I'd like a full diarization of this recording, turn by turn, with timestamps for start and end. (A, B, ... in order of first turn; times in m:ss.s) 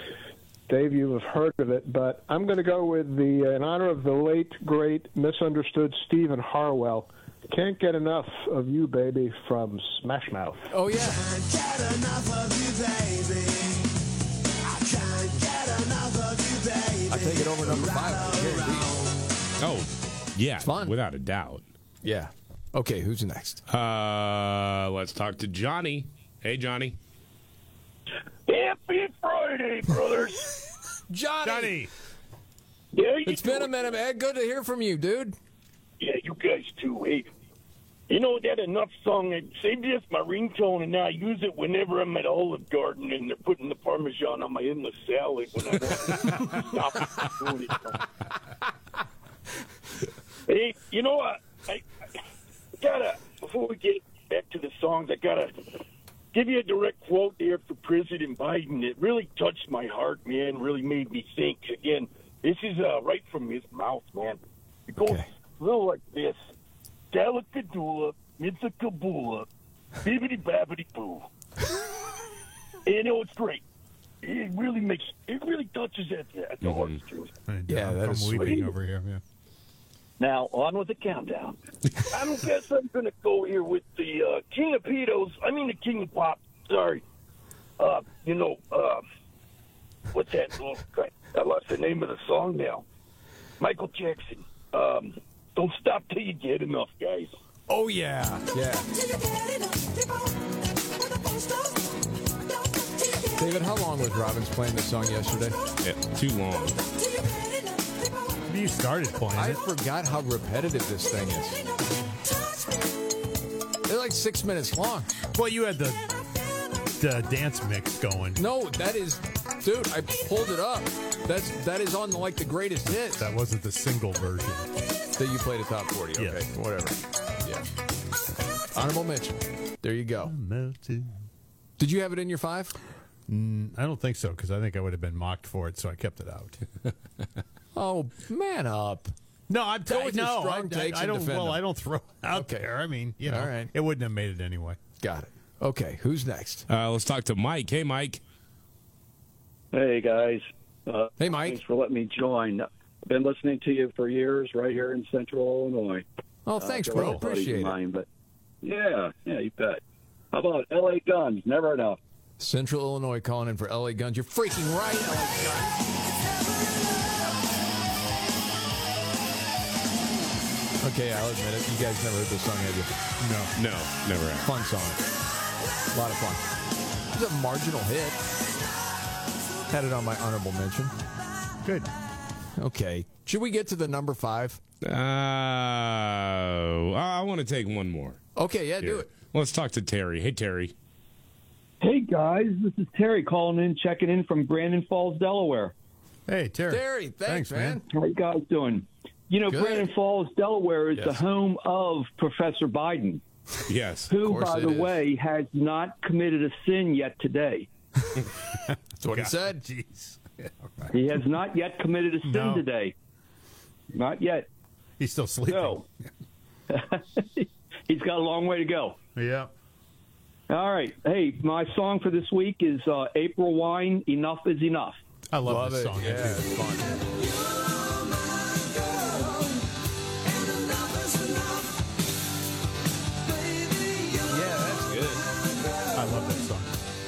0:00.7-0:10.7 A
0:10.7-0:11.3 B
0:17.1-0:18.9 B
0:19.6-0:21.7 C
0:20.6-0:21.0 B
0:22.0-0:23.6 B
0:23.7-0:27.0 C
0:28.5-0:30.5 D
0:31.1-0:31.8 B
0:31.4-0:31.9 E
0:32.9-0:34.0 D
0:33.2-0:35.4 B
0:36.0-0:37.3 D
0:38.1-0:48.0 D
0:50.5-0:51.8 D
0:52.8-0:55.5 D
0:56.3-1:06.4 D
1:07.1-1:09.5 D
1:10.0-1:11.2 D
1:12.9-1:13.6 D
1:14.2-1:17.3 D
1:16.6-1:17.0 C
1:17.5-1:19.2 E
1:17.7-1:18.6 B
1:20.2-1:21.6 F
1:22.1-1:27.0 D
1:27.8-1:29.0 D
1:30.1-1:32.8 D
1:33.6-1:37.3 D
1:37.7-1:38.9 B
1:43.4-1:45.6 B
1:45.8-1:46.8 C
1:48.5-1:49.6 E
1:49.3-1:51.6 B
1:53.9-1:55.1 B
1:55.4-1:56.0 E
1:57.0-1:58.4 E
1:58.4-2:03.3 B
2:03.2-2:04.7 E
2:05.2-2:07.6 B
2:06.2-2:06.4 E
2:08.7-2:10.3 B
2:10.2-2:11.1 E
2:11.8-2:12.8 B
2:13.3-2:16.6 E
2:17.8-2:19.1 B
2:19.5-2:24.8 E
2:19.9-2:21.6 B
2:22.3-2:22.6 B
2:23.2-2:23.7 B
2:25.0-2:26.7 B
2:26.7-2:28.2 C
2:29.7-2:36.0 F
2:31.2-2:31.6 B
2:36.5-2:37.8 B
2:36.6-2:38.1 F
2:38.6-2:39.8 F
2:40.3-2:42.0 F
2:42.4-2:45.7 B
2:50.8-2:52.9 B
2:53.2-2:53.5 E
2:53.6-2:54.5 C
2:54.4-2:55.0 B
2:55.9-2:56.5 B
2:57.1-2:58.2 B
2:59.7-3:00.9 B
3:02.6-3:04.6 B
3:04.8-3:08.2 C
3:08.4-3:09.1 B
3:08.8-3:10.7 C
3:11.8-3:15.7 G
3:16.3-3:17.8 E
3:16.7-3:17.8 B
3:17.9-3:23.2 G
3:19.5-3:19.9 B
3:21.0-3:21.2 B
3:23.7-3:24.1 C
3:24.1-3:27.7 G
3:24.1-3:25.0 B
3:29.0-3:29.6 B
3:29.1-3:30.9 E
3:30.9-3:32.9 G
3:32.2-3:32.6 E
3:33.9-3:34.5 G
3:35.0-3:36.1 E
3:35.5-3:35.8 G
3:36.7-3:39.0 G
3:39.2-3:39.5 E
3:40.5-3:45.0 G
3:45.3-3:46.5 E
3:45.4-3:47.0 B
3:54.2-3:55.2 B
3:56.0-3:56.7 E